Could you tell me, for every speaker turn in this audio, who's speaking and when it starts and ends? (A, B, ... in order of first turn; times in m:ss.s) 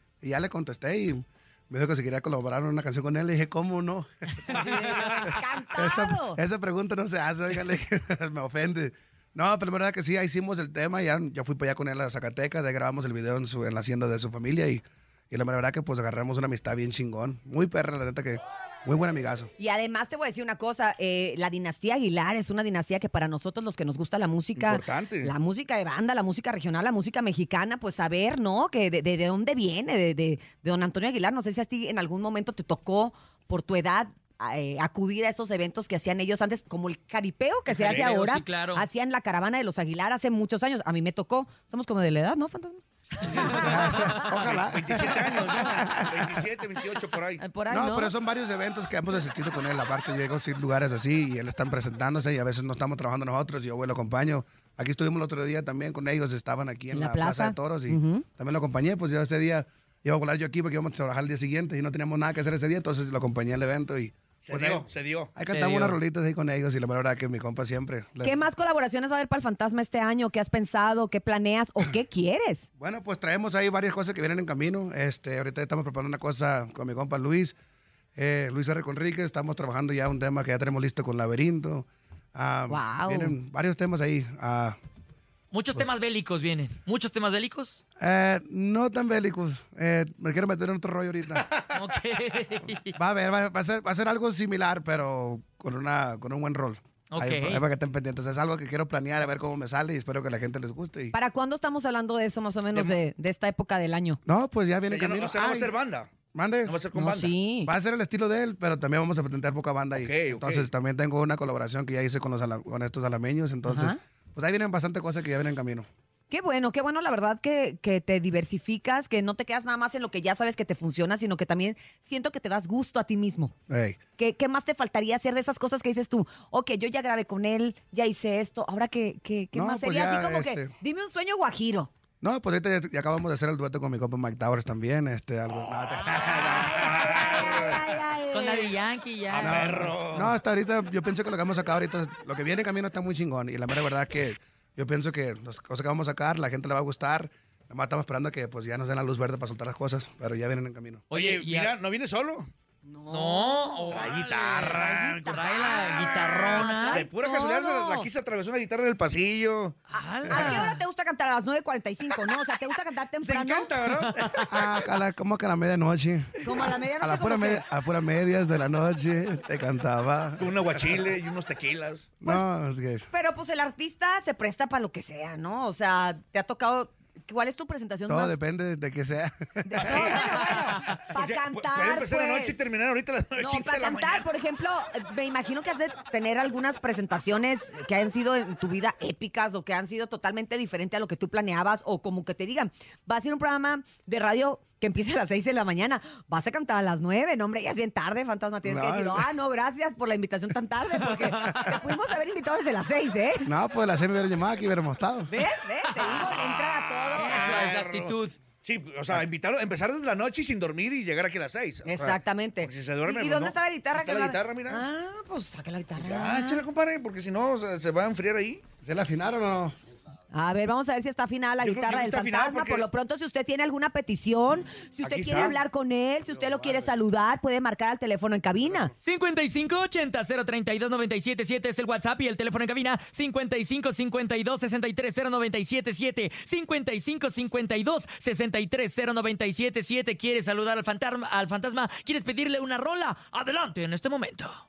0:00.2-0:19.5 A
0:04.5-0:06.4 B
0:19.6-0:44.4 B
0:24.6-0:25.3 C
0:37.7-0:38.0 C
0:37.7-0:38.9 D
0:43.5-0:46.3 A
0:43.6-0:44.3 D
0:44.4-0:47.4 C
0:47.4-0:48.1 B
0:47.7-1:08.4 A
0:56.9-0:58.2 B
1:04.4-1:05.3 C
1:05.5-1:06.0 D
1:08.2-1:12.6 B
1:12.8-1:17.5 A
1:18.2-1:24.8 A
1:22.7-1:23.4 B
1:25.5-1:27.8 D
1:28.0-1:31.5 A
1:31.7-1:33.0 D
1:32.8-1:41.1 A
1:37.1-1:37.6 D
1:41.1-1:44.2 B
1:42.7-1:43.0 C
1:44.2-1:45.7 A
1:44.9-1:46.1 C
1:46.3-1:46.8 A
1:46.6-1:47.4 C
1:46.9-1:47.7 B
1:47.6-1:55.9 A
1:50.0-1:50.7 C
1:53.6-1:54.0 B
1:56.3-2:03.5 B
2:03.7-2:04.0 A
2:04.2-2:11.9 B
2:09.5-2:10.7 A
2:12.2-2:17.8 A
2:16.2-2:18.7 B
2:16.8-2:17.8 C
2:18.3-2:19.9 D
2:19.3-2:20.4 C
2:19.3-2:31.0 A
2:31.1-2:31.7 D
2:31.1-2:32.5 C
2:32.8-2:34.1 B
2:33.1-2:37.1 D
2:33.9-2:39.8 C
2:34.7-2:38.1 B
2:39.9-2:40.8 D
2:39.9-2:43.7 B
2:43.2-2:44.9 C
2:44.5-2:51.0 A
2:46.4-2:47.6 B
2:50.4-2:52.2 C
2:52.2-2:53.1 A
2:53.1-2:58.4 B
2:58.1-3:00.2 A
2:59.6-3:02.6 B
2:59.8-3:04.3 C
3:03.4-3:23.5 B
3:18.6-3:19.3 A
3:21.3-3:21.7 A
3:23.4-3:25.3 A
3:25.3-3:27.6 B
3:26.1-3:26.6 C
3:27.1-3:28.4 D
3:27.3-3:34.8 C
3:31.8-3:36.6 B
3:36.0-3:38.6 C
3:38.8-3:39.7 A
3:40.3-3:48.9 B
3:41.6-3:42.9 C
3:45.0-3:45.6 A
3:46.2-3:46.9 A
3:48.6-3:48.9 A
3:49.0-4:04.5 D